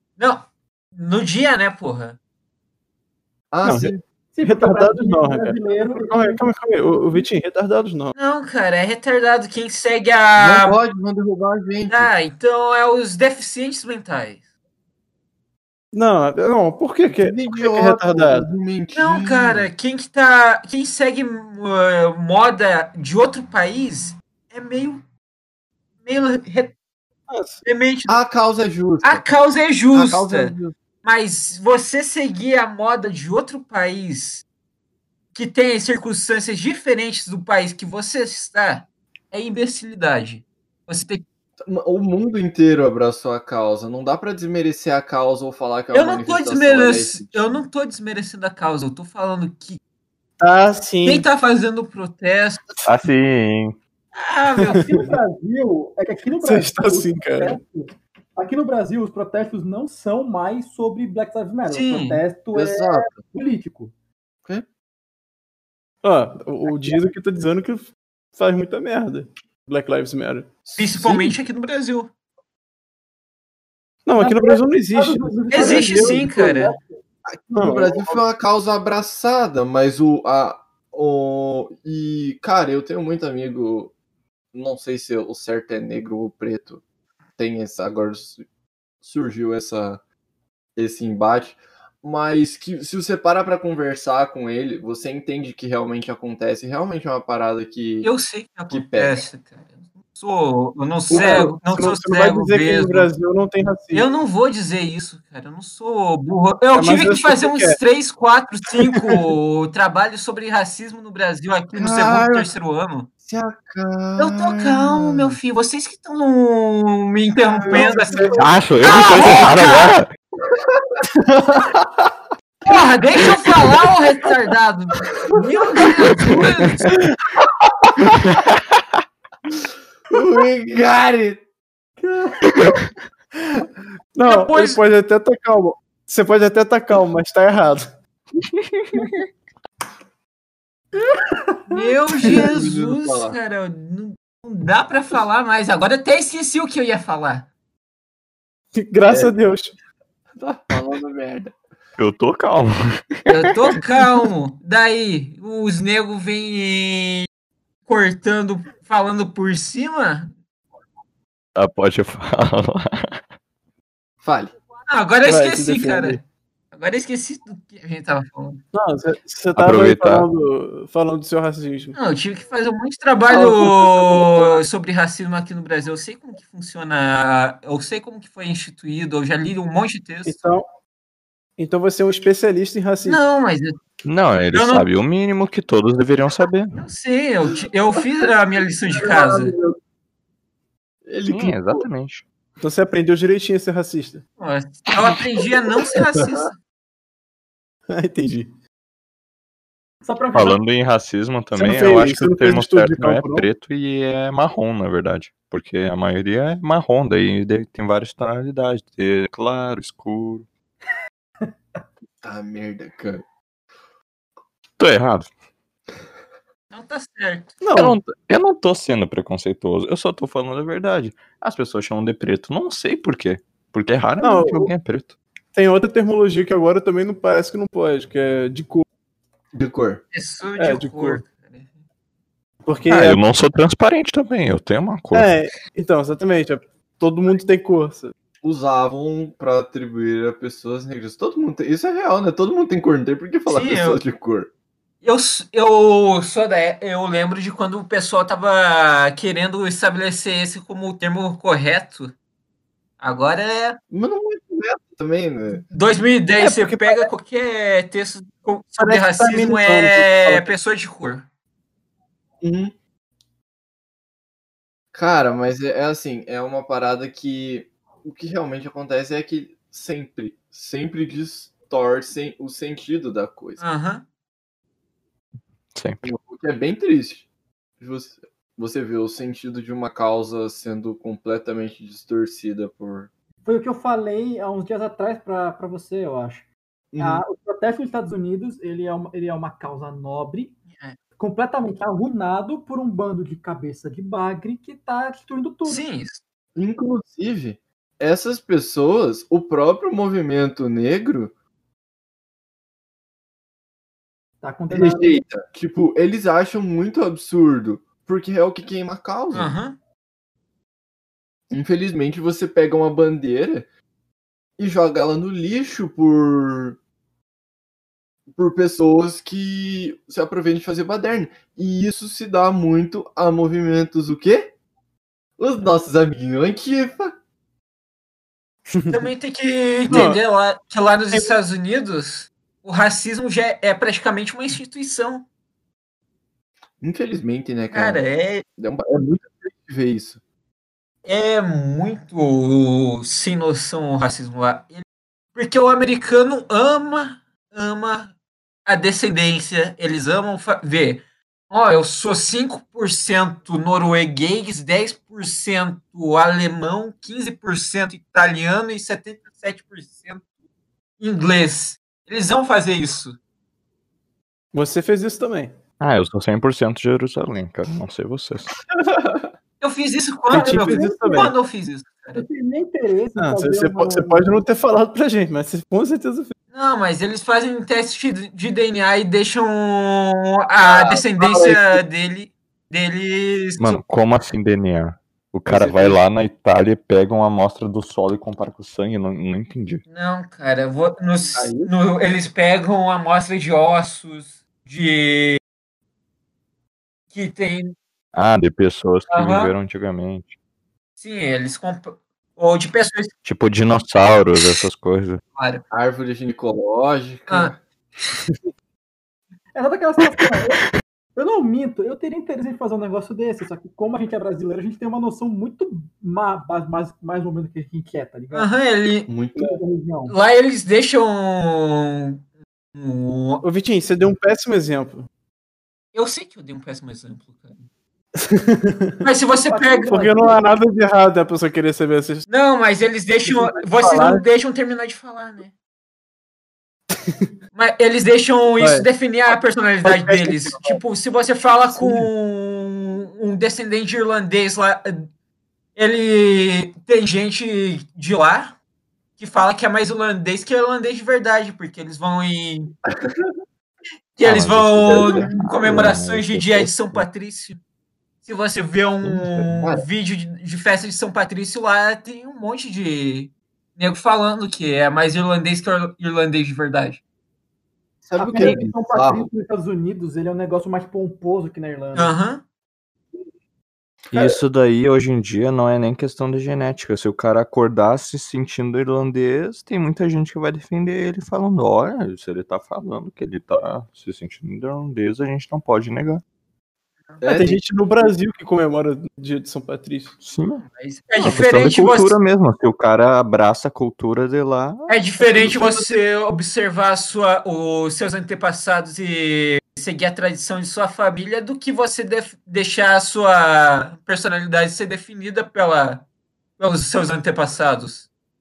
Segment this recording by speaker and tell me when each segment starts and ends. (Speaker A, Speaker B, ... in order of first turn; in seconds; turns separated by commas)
Speaker A: 0.2-2.2, Speaker B: 3.5-4.0, Speaker C: 3.6-8.2, Speaker D: 4.3-6.4, Speaker A: 8.2-10.8, Speaker B: 10.4-12.1, Speaker A: 11.9-14.4, Speaker C: 15.9-18.5, Speaker B: 17.0-19.7, Speaker A: 18.9-25.0, Speaker A: 26.0-26.8, Speaker C: 27.3-27.6, Speaker A: 27.6-28.2, Speaker B: 28.1-29.2, Speaker A: 29.0-34.5, Speaker B: 29.9-30.6, Speaker A: 35.3-41.2, Speaker B: 41.6-47.6, Speaker A: 45.9-49.8, Speaker C: 50.4-51.3, Speaker A: 51.0-52.7, Speaker E: 52.9-53.8, Speaker A: 54.2-54.9, Speaker C: 54.6-55.0, Speaker D: 54.6-63.9, Speaker C: 56.4-57.6, Speaker A: 61.7-62.2, Speaker B: 62.5-63.2, Speaker C: 66.0-70.5, Speaker B: 70.7-71.4, Speaker A: 70.8-72.1, Speaker C: 74.1-76.3, Speaker D: 74.2-76.9, Speaker A: 75.5-76.8, Speaker B: 77.3-83.9, Speaker C: 77.6-78.2, Speaker B: 84.5-86.8, Speaker B: 87.4-88.4, Speaker B: 89.0-90.0, Speaker B: 90.8-98.1, Speaker A: 98.0-103.1, Speaker B: 98.7-99.2, Speaker B: 101.1-101.5, Speaker C: 101.1-104.1, Speaker A: 103.9-113.1, Speaker C: 106.7-107.8, Speaker C: 108.8-109.3, Speaker B: 111.8-112.5, Speaker B: 113.2-115.4, Speaker A: 114.2-119.9, Speaker B: 117.5-118.5, Speaker E: 118.4-120.1, Speaker C: 121.2-121.7, Speaker B: 122.7-123.8, Speaker A: 122.7-126.9, Speaker B: 125.1-126.5, Speaker C: 126.9-127.2, Speaker B: 130.1-131.4, Speaker D: 132.0-132.8, Speaker C: 134.2-137.9, Speaker A: 134.3-134.8, Speaker D: 141.0-141.9, Speaker A: 141.7-147.5, Speaker B: 142.2-143.4, Speaker C: 148.7-149.8, Speaker B: 149.1-149.3, Speaker B: 150.4-151.5, Speaker E: 152.0-153.0, Speaker A: 153.3-157.3, Speaker A: 157.9-160.3, Speaker E: 161.6-163.2, Speaker B: 164.2-164.6, Speaker A: 164.9-166.2, Speaker C: 165.2-166.2, Speaker A: 166.7-168.6, Speaker C: 168.7-172.0, Speaker E: 169.6-170.3, Speaker A: 171.9-180.4, Speaker B: 173.3-174.6, Speaker C: 180.3-180.7, Speaker C: 181.6-183.2, Speaker A: 183.1-183.8, Speaker E: 184.1-186.8, Speaker A: 184.5-184.9, Speaker A: 186.8-189.6, Speaker B: 188.9-189.8, Speaker B: 191.1-191.9, Speaker E: 191.3-192.2, Speaker C: 192.6-194.2, Speaker A: 194.4-196.5, Speaker B: 195.1-196.1, Speaker C: 197.9-198.5, Speaker D: 200.0-200.6, Speaker E: 200.3-210.5, Speaker C: 201.6-203.5, Speaker B: 212.2-213.2, Speaker E: 214.8-215.3, Speaker A: 216.7-217.6, Speaker C: 217.6-218.0, Speaker E: 217.8-225.2, Speaker C: 224.2-224.7, Speaker C: 225.5-228.9, Speaker B: 229.5-230.0, Speaker A: 230.1-231.7, Speaker C: 230.6-231.2, Speaker C: 232.7-233.2, Speaker E: 232.9-235.3, Speaker C: 235.1-238.1, Speaker B: 238.4-244.5, Speaker A: 243.5-244.0, Speaker A: 245.0-252.1, Speaker A: 253.0-253.8, Speaker B: 253.9-255.6, Speaker A: 255.7-261.3, Speaker C: 256.4-257.1, Speaker C: 258.8-260.5, Speaker B: 262.4-262.7, Speaker B: 264.9-273.6, Speaker A: 273.6-274.0, Speaker E: 275.8-276.0, Speaker B: 276.0-277.3, Speaker B: 277.8-283.1, Speaker D: 283.4-286.4, Speaker B: 286.9-287.2, Speaker D: 287.0-290.6, Speaker D: 291.2-295.9, Speaker A: 295.6-296.2, Speaker B: 296.6-301.3, Speaker D: 304.4-305.2, Speaker B: 304.7-309.5, Speaker A: 309.3-309.8, Speaker B: 311.5-313.7, Speaker B: 314.6-316.8, Speaker B: 318.3-324.5, Speaker B: 325.4-327.1, Speaker C: 328.7-329.0, Speaker A: 328.9-335.2, Speaker C: 329.9-330.2, Speaker B: 336.8-338.1, Speaker A: 337.7-338.4, Speaker B: 338.6-340.2, Speaker A: 341.1-344.8, Speaker A: 345.4-348.1, Speaker A: 348.7-360.2, Speaker A: 361.0-363.2, Speaker C: 364.5-365.5, Speaker E: 365.8-368.5, Speaker A: 369.6-372.2, Speaker C: 370.3-371.3, Speaker D: 370.3-371.4, Speaker D: 372.1-374.4, Speaker C: 373.2-376.4, Speaker A: 376.5-383.8, Speaker B: 380.6-381.6, Speaker E: 383.6-389.8, Speaker B: 385.5-386.0, Speaker A: 389.9-395.4, Speaker B: 391.4-391.7, Speaker A: 397.1-397.8, Speaker E: 398.1-400.4, Speaker A: 399.1-399.5, Speaker A: 401.0-403.1, Speaker E: 403.2-405.2, Speaker A: 405.4-405.6, Speaker B: 405.7-407.6, Speaker A: 407.3-407.6, Speaker D: 409.5-410.6, Speaker D: 411.2-418.5, Speaker A: 418.3-419.1, Speaker B: 419.1-419.4, Speaker D: 419.4-420.1, Speaker A: 420.1-423.4, Speaker C: 423.4-425.1, Speaker A: 425.9-427.7, Speaker C: 428.2-429.0, Speaker A: 429.0-430.0, Speaker D: 429.5-430.5, Speaker C: 429.9-432.3, Speaker A: 432.3-435.5, Speaker C: 433.3-434.2, Speaker A: 437.6-445.1, Speaker C: 438.6-438.9, Speaker C: 439.8-440.8, Speaker C: 441.7-442.1, Speaker A: 445.8-448.5, Speaker A: 449.2-452.7, Speaker A: 454.2-457.6, Speaker E: 454.2-457.1, Speaker B: 454.9-455.3, Speaker A: 458.2-467.0, Speaker E: 459.0-459.4, Speaker B: 459.5-459.8, Speaker B: 468.1-469.3, Speaker D: 468.2-472.2, Speaker A: 471.9-472.4, Speaker E: 474.1-486.2, Speaker B: 487.2-487.6, Speaker C: 487.3-490.2, Speaker E: 490.2-490.6, Speaker A: 490.6-492.1, Speaker E: 491.2-495.6, Speaker A: 494.9-506.1, Speaker A: 506.6-508.1